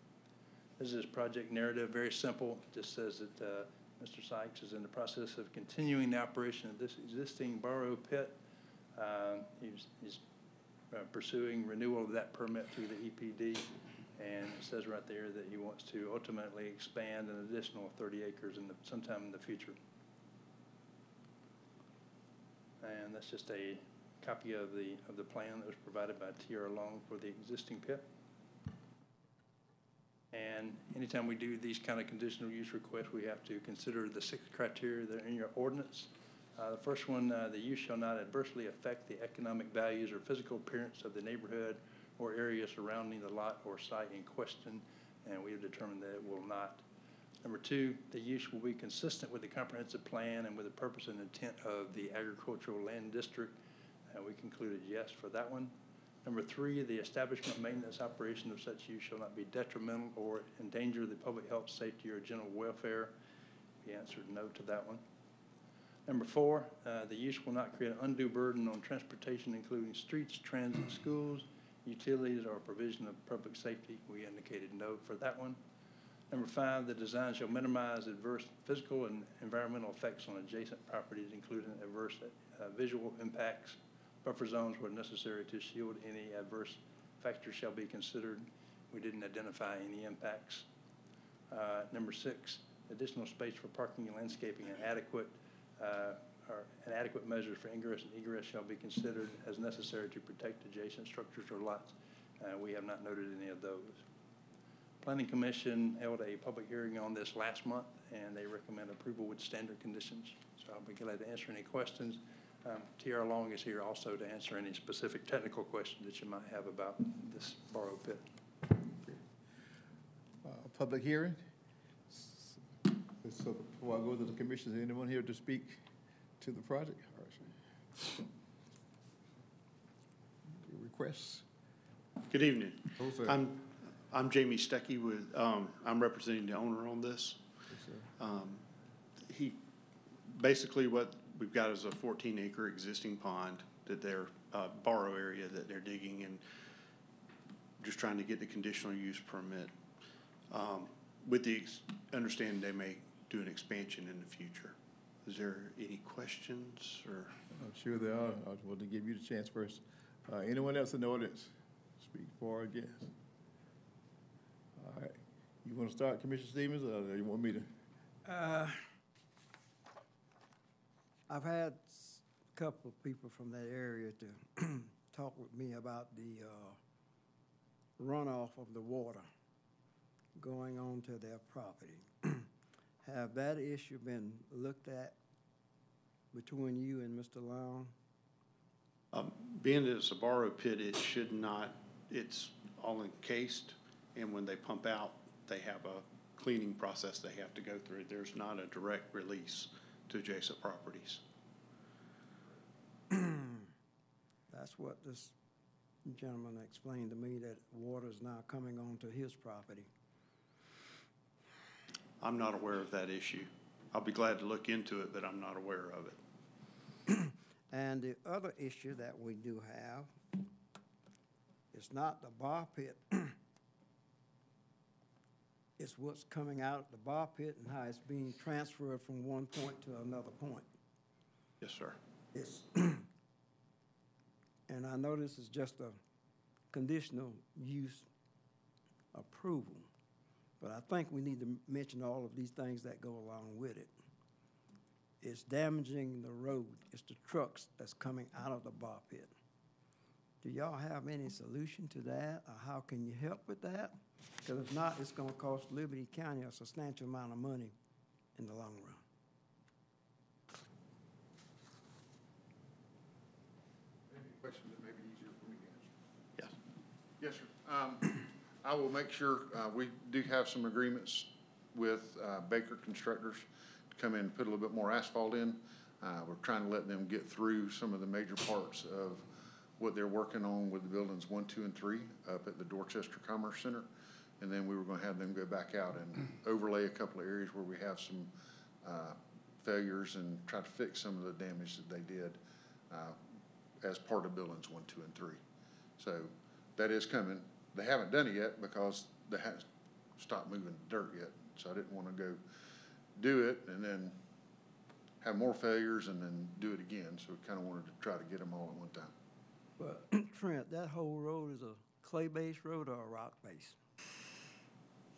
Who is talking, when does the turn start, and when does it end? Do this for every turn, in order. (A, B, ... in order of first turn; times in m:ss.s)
0:00.8-0:08.4 A
0:08.9-0:10.2 A
0:10.9-0:19.8 A
0:22.8-0:28.0 A
0:30.3-0:46.8 A
0:47.4-0:53.6 A
0:54.1-1:03.1 A
1:03.8-1:05.0 A
1:06.0-1:15.6 A
1:16.3-1:30.7 A
1:31.5-1:44.0 A
1:45.0-1:58.2 A
2:00.4-2:01.4 B
2:02.1-2:02.6 B
2:03.2-2:05.8 B
2:06.4-2:07.5 B
2:10.6-2:11.4 B
2:12.3-2:17.4 C
2:13.0-2:13.4 B
2:17.7-2:18.1 B
2:18.2-2:18.6 C
2:19.2-2:19.6 C
2:20.3-2:26.4 C
2:27.8-2:29.7 C
2:30.5-2:37.4 C
2:37.5-2:43.1 B
2:44.8-2:47.7 B
2:48.2-2:48.9 D
2:51.3-2:56.8 D
2:58.0-2:59.3 D
3:00.4-3:02.5 D
3:03.0-3:05.2 D
3:06.3-3:07.9 D
3:09.1-3:21.2 C
3:23.1-3:23.7 D
3:24.5-3:25.4 D
3:26.0-3:29.9 D
3:32.2-3:36.2 C
3:37.1-3:40.1 D
3:41.7-3:43.4 D
3:45.8-3:50.7 D
3:51.6-3:52.0 C
3:52.3-3:53.0 D
3:54.7-3:56.0 D
3:56.7-3:58.1 D
3:59.1-3:59.9 D
4:00.6-4:03.9 D
4:05.2-4:09.3 D
4:10.4-4:17.8 D
4:18.4-4:19.0 D
4:24.1-4:25.9 E
4:27.2-4:39.2 E
4:39.8-4:43.9 E
4:44.4-4:48.3 E
4:48.8-4:52.4 E
4:52.9-4:53.2 E
4:53.8-4:55.4 E
4:56.0-4:59.6 E
5:00.2-5:02.4 E
5:03.2-5:04.2 E
5:05.2-5:09.1 E
5:09.8-5:13.8 D